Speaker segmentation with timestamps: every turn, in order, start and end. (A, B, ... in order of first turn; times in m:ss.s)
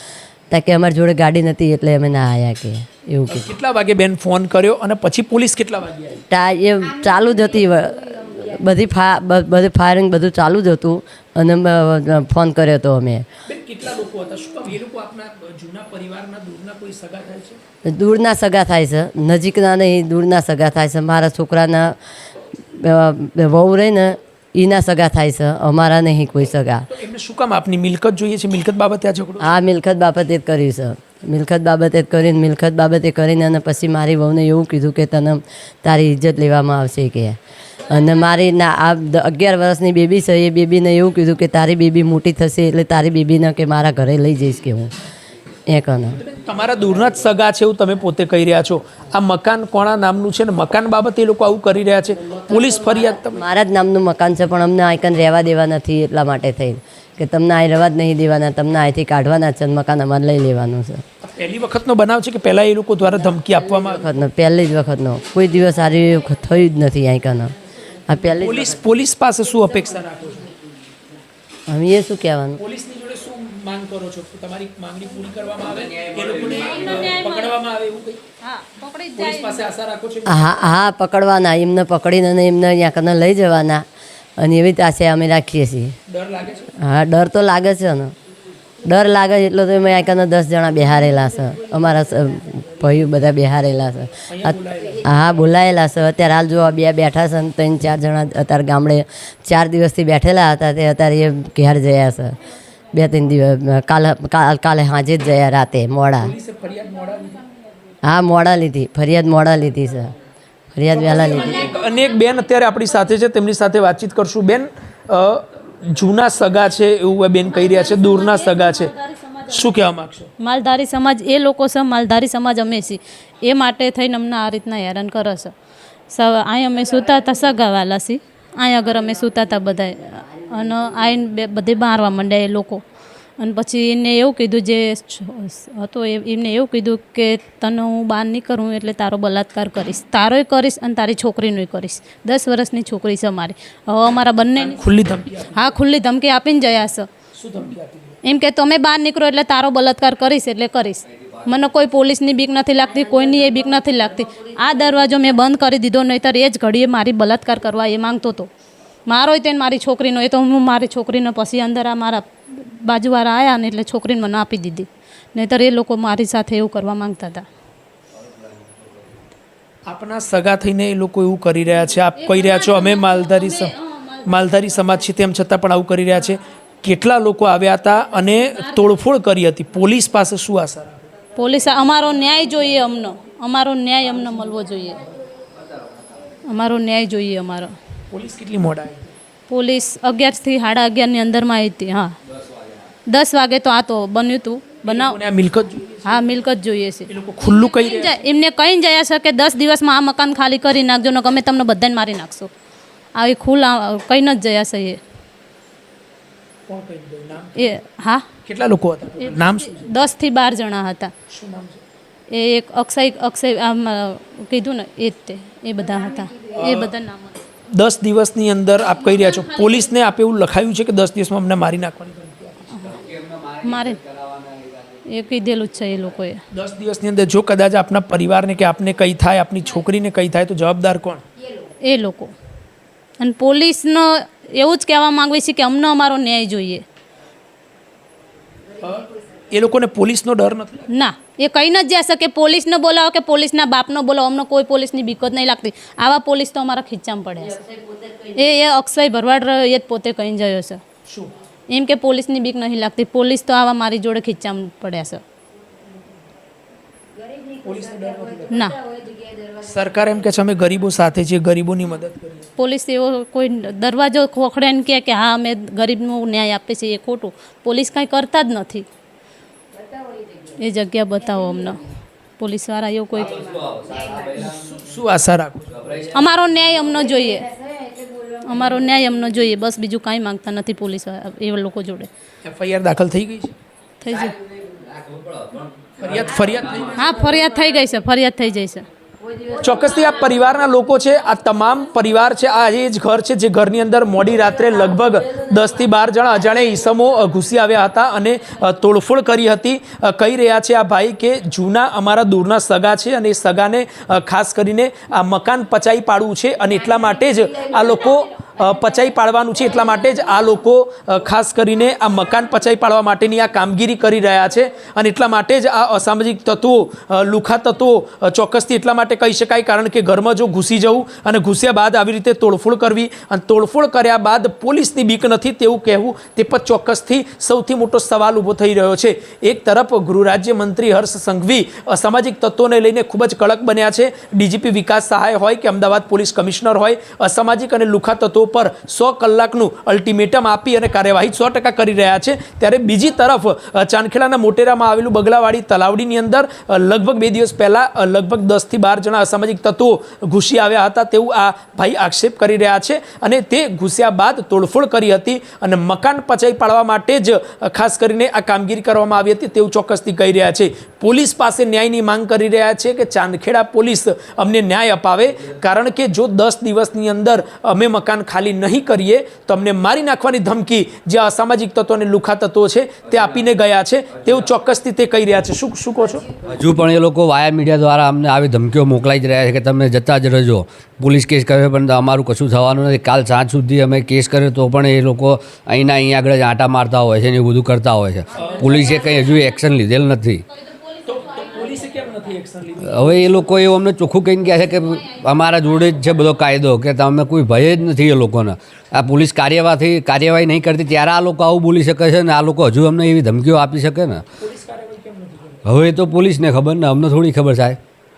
0:00.5-0:03.5 A
0:03.3-0:06.2 B
0:06.3-0:13.2 A
0:13.5-0:17.6 B
0:17.8-0:22.0 A
0:22.8-0:26.9 A
0:26.9-0:29.5 B
0:29.4-0:44.9 A
0:45.7-0:46.2 A
0:46.2-0:53.4 B
0:52.4-1:01.0 A
1:01.2-1:04.0 B
1:03.9-1:07.5 A
1:08.1-1:08.8 A
1:08.4-1:10.5 B
1:11.7-1:12.6 A
1:12.6-1:18.2 B
1:15.9-1:17.0 C
1:17.0-1:17.5 D
1:18.4-1:19.6 D
1:19.2-1:20.5 B
1:20.3-1:23.8 A
1:24.4-1:26.0 A
1:26.1-1:26.7 B
1:26.8-1:28.1 A
1:28.8-1:42.4 A
1:34.3-1:35.0 B
1:42.9-1:46.3 A
1:46.2-1:47.4 B
1:48.0-1:50.1 A
1:50.7-1:51.7 A
1:50.9-1:58.9 B
1:57.5-1:59.6 D
1:59.5-2:00.3 B
2:00.4-2:05.5 D
2:06.1-2:12.8 D
2:13.4-2:24.8 D
2:24.6-2:25.7 B
2:25.5-2:27.1 D
2:27.4-2:28.2 B
2:28.2-2:38.5 D
2:39.1-2:47.4 D
2:48.3-2:48.8 C
2:49.9-2:53.7 B
2:52.2-2:54.2 D
2:54.2-3:01.1 B
2:58.5-2:58.8 D
3:01.4-3:05.0 D
3:06.5-3:07.7 D
3:08.1-3:09.1 B
3:09.5-3:12.1 D
3:13.1-3:15.2 D
3:14.8-3:16.2 B
3:16.0-3:22.5 D
3:17.1-3:18.2 B
3:23.1-3:25.0 D
3:26.7-3:27.7 B
3:27.6-3:28.2 D
3:28.4-3:29.9 B
3:29.2-3:31.1 D
3:31.3-3:31.8 B
3:32.3-3:37.4 D
3:36.5-3:36.9 B
3:37.7-3:42.9 B
3:39.2-3:39.7 D
3:42.8-3:45.0 C
3:43.6-3:44.0 D
3:45.1-3:46.4 D
3:46.5-3:51.2 B
3:51.8-3:52.3 D
3:53.2-3:56.8 D
3:58.8-4:00.9 B
4:00.9-4:07.6 D
4:08.3-4:10.8 D
4:11.7-4:15.2 D
4:17.6-4:18.6 B
4:18.5-4:18.8 D
4:19.6-4:22.5 B
4:22.6-4:28.8 D
4:30.6-4:31.8 D
4:32.4-4:33.5 D
4:33.2-4:34.7 C
4:34.4-4:35.8 B
4:35.7-4:36.1 C
4:36.1-4:37.5 D
4:38.4-4:42.1 D
4:42.4-4:43.5 B
4:44.0-4:44.3 D
4:44.1-4:47.1 C
4:46.0-4:47.1 B
4:47.0-4:48.8 D
4:49.5-6:16.2 B
6:13.1-6:13.4 C
6:16.4-6:30.4 C
6:28.4-6:28.8 B
6:31.0-6:33.4 B
6:32.8-6:44.2 C
6:44.4-6:45.6 B
6:45.6-6:47.8 C